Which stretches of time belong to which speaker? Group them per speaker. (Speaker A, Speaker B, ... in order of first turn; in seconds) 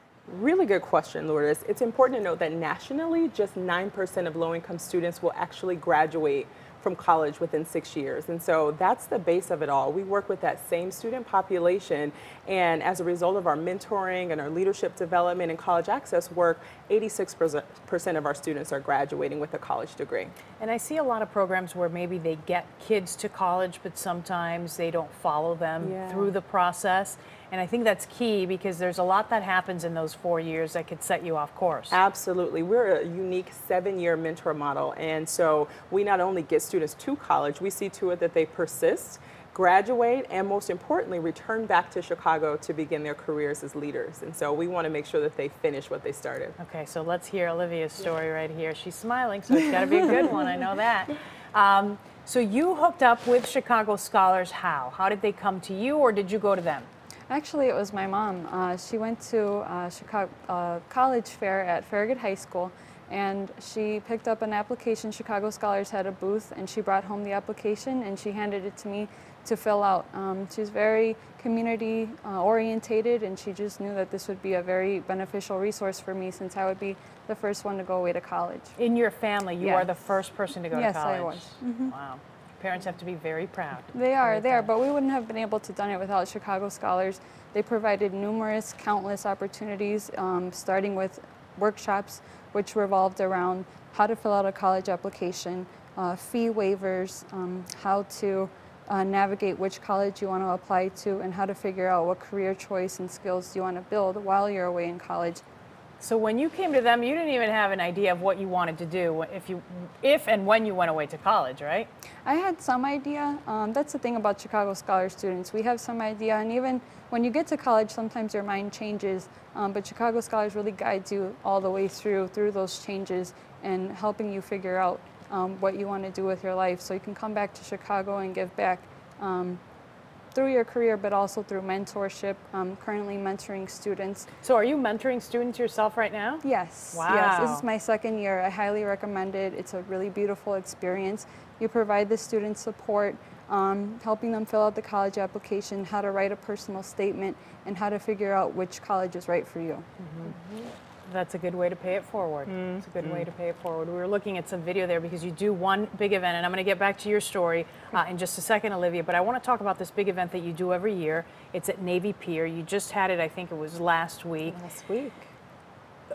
Speaker A: 0.3-20.3, 25.8-26.3, 31.9-46.5, 152.5-153.3, 164.5-165.3
Speaker B: 20.6-32.0, 46.6-56.9, 78.8-84.7, 106.0-111.9, 134.4-137.6, 150.0-150.3, 151.0-164.6
Speaker C: 57.3-78.7, 79.6-79.9, 80.7-81.9, 83.9-105.4, 112.2-129.6, 130.3-134.3, 136.4-149.8